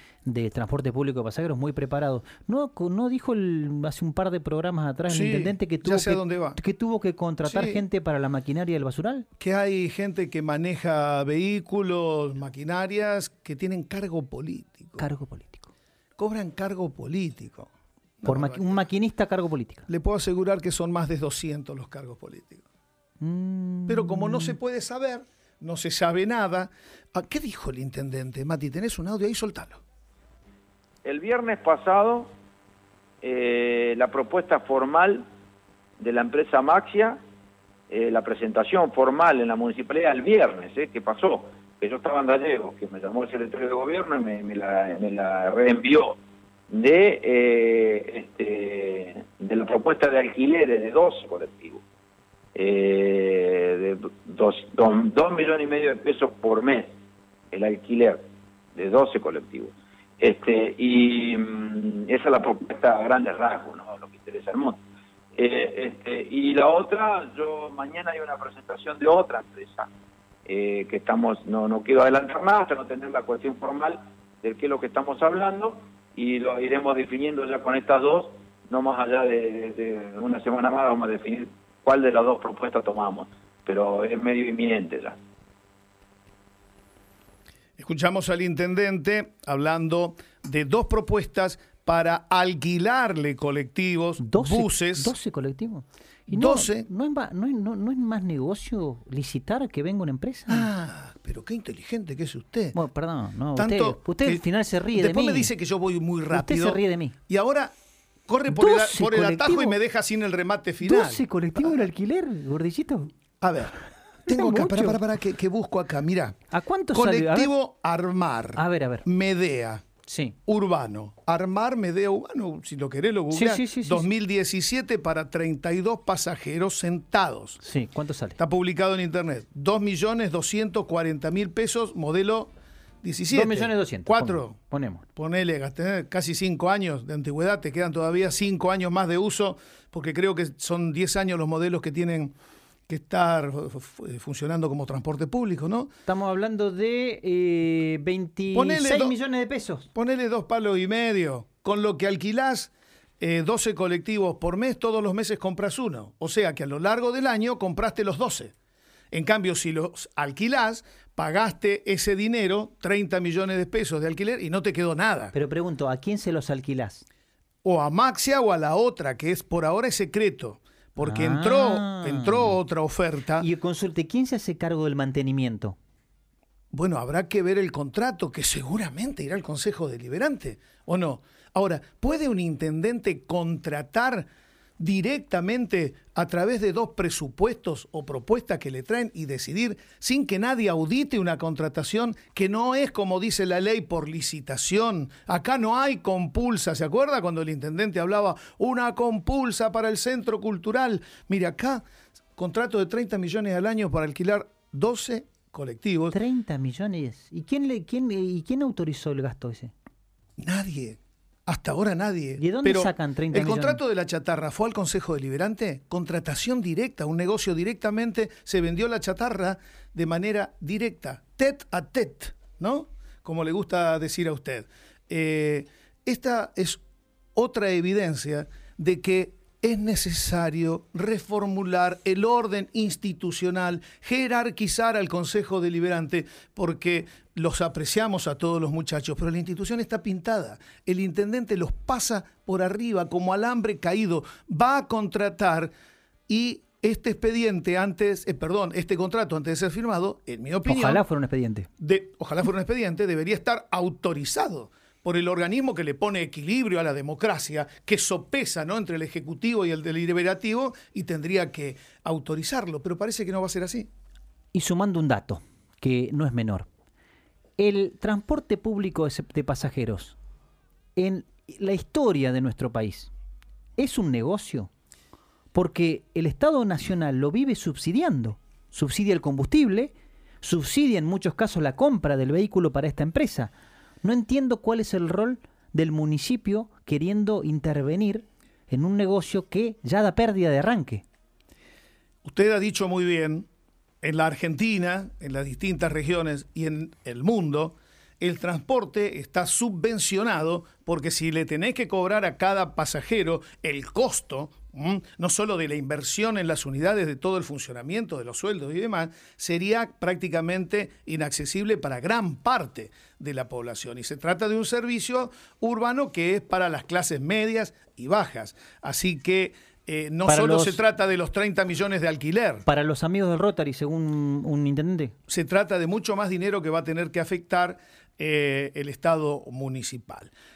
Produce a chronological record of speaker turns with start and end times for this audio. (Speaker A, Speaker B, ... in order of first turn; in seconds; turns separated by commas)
Speaker A: 0.2-9.2, Speaker B: 5.1-6.6, Speaker B: 7.4-7.8, Speaker B: 9.4-15.1, Speaker A: 15.0-15.7, Speaker B: 16.2-17.7, Speaker B: 18.2-18.8, Speaker A: 18.2-19.9, Speaker B: 19.9-22.6, Speaker A: 23.2-24.6, Speaker B: 23.9-29.8, Speaker C: 31.0-32.3, Speaker C: 33.2-35.2, Speaker C: 36.0-37.2, Speaker C: 37.9-46.2, Speaker C: 46.7-51.8, Speaker C: 52.5-56.9, Speaker C: 57.5-58.2, Speaker C: 58.7-64.8, Speaker C: 65.3-69.9, Speaker C: 70.5-85.2, Speaker B: 87.8-95.1, Speaker A: 94.2-100.7, Speaker B: 96.3-96.9, Speaker B: 100.5-102.8, Speaker A: 102.7-105.5, Speaker B: 103.5-107.7, Speaker A: 106.3-107.2, Speaker B: 108.3-111.8, Speaker A: 108.5-109.8, Speaker A: 110.8-113.1, Speaker B: 113.4-116.4, Speaker A: 114.2-115.0, Speaker A: 116.5-117.5, Speaker B: 116.9-119.8, Speaker A: 118.5-119.0, Speaker A: 120.0-120.3, Speaker B: 120.5-127.6, Speaker A: 123.3-124.1, Speaker A: 127.6-128.4, Speaker B: 128.4-132.5, Speaker B: 133.0-134.6, Speaker A: 133.3-135.1, Speaker B: 135.2-142.3, Speaker B: 142.9-145.9, Speaker A: 146.1-149.9, Speaker B: 148.5-149.2, Speaker B: 149.9-158.5, Speaker B: 159.1-165.3, Speaker A: 165.3-167.0, Speaker B: 167.6-173.5, Speaker A: 171.0-172.6, Speaker A: 173.4-175.8, Speaker B: 176.7-201.8, Speaker B: 202.4-206.2, Speaker A: 206.1-209.7, Speaker B: 210.4-226.8, Speaker A: 212.4-213.8, Speaker B: 227.3-245.7, Speaker B: 246.3-251.0, Speaker A: 250.6-251.7, Speaker B: 251.8-263.9, Speaker A: 264.5-266.7, Speaker A: 267.6-270.1, Speaker A: 270.9-273.1, Speaker A: 273.8-274.7, Speaker A: 275.5-291.0, Speaker B: 292.2-293.5, Speaker B: 294.0-322.6, Speaker A: 320.2-320.8, Speaker A: 322.6-325.1, Speaker B: 325.3-330.3